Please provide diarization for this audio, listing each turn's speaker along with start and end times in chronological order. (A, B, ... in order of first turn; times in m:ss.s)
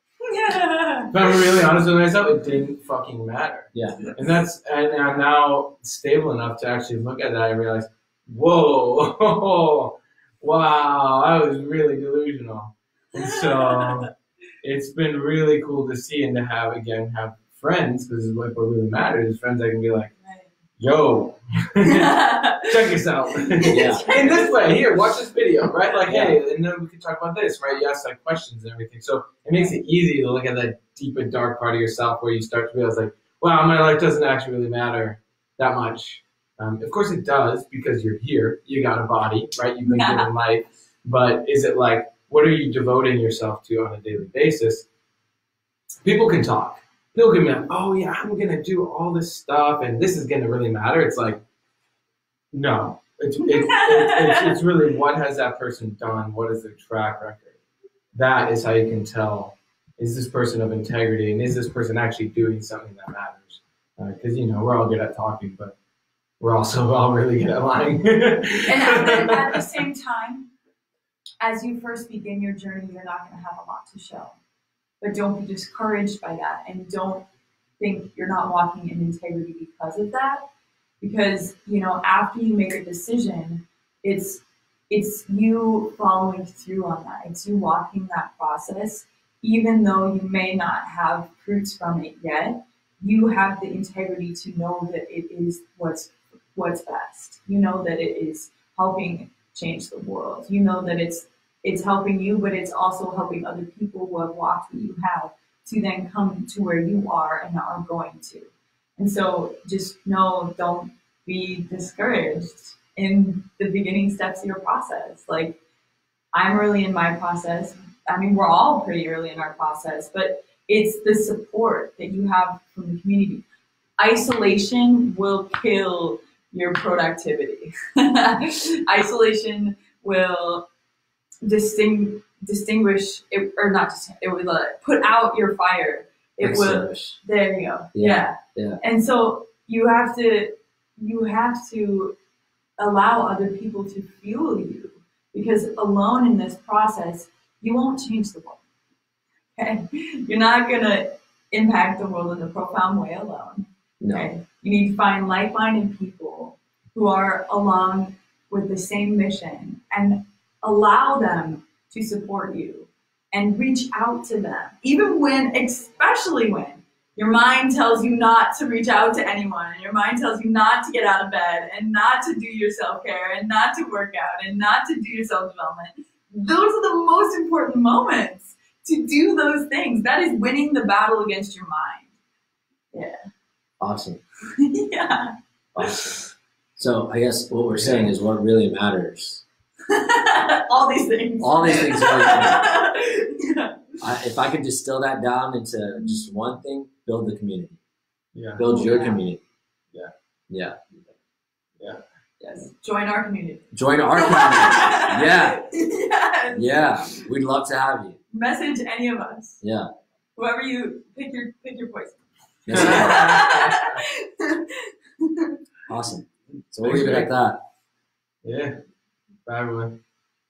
0:00.3-0:01.4 A
0:01.1-0:14.1 B
0:03.7-0:04.1 C
0:13.2-0:14.0 A
0:14.6-0:20.1 B
0:20.2-0:20.5 A
0:20.8-0:44.9 B
0:21.8-0:22.8 A
0:23.4-0:24.5 A
0:23.7-0:24.1 C
0:26.1-0:26.4 C
0:39.8-0:40.3 A
0:46.0-0:51.4 B
0:52.5-0:57.6 B
0:53.5-0:54.6 A
0:58.1-1:05.7 B
1:06.4-1:09.6 B
1:08.6-1:10.5 A
1:11.4-1:14.4 A
1:15.0-1:17.2 A
1:17.8-1:20.4 A
1:21.0-1:55.6 A
1:56.3-2:03.4 A
2:04.0-2:10.6 A
2:11.4-2:22.1 A
2:16.4-2:17.2 C
2:17.9-2:18.8 C
2:22.8-2:28.6 A
2:29.6-3:02.1 A
2:34.0-2:34.3 C
3:03.8-3:04.2 C
3:04.5-3:06.1 A
3:05.7-3:06.2 C
3:06.8-3:09.4 C
3:07.7-3:08.1 B
3:09.9-3:13.8 A
3:11.4-3:12.6 C
3:14.0-3:17.8 C
3:16.0-3:16.2 A
3:18.3-3:18.6 B
3:18.6-3:19.4 C
3:18.6-3:19.2 A
3:20.5-3:20.8 C
3:22.4-3:27.2 A
3:23.7-3:25.6 C
3:26.5-3:28.2 C
3:28.3-3:29.6 A
3:29.6-3:29.9 C
3:30.4-3:35.5 A
3:32.6-3:33.4 C
3:32.7-3:34.0 B
3:35.9-3:37.6 C
3:36.8-3:37.3 B
3:38.4-3:38.8 B
3:39.4-3:40.0 B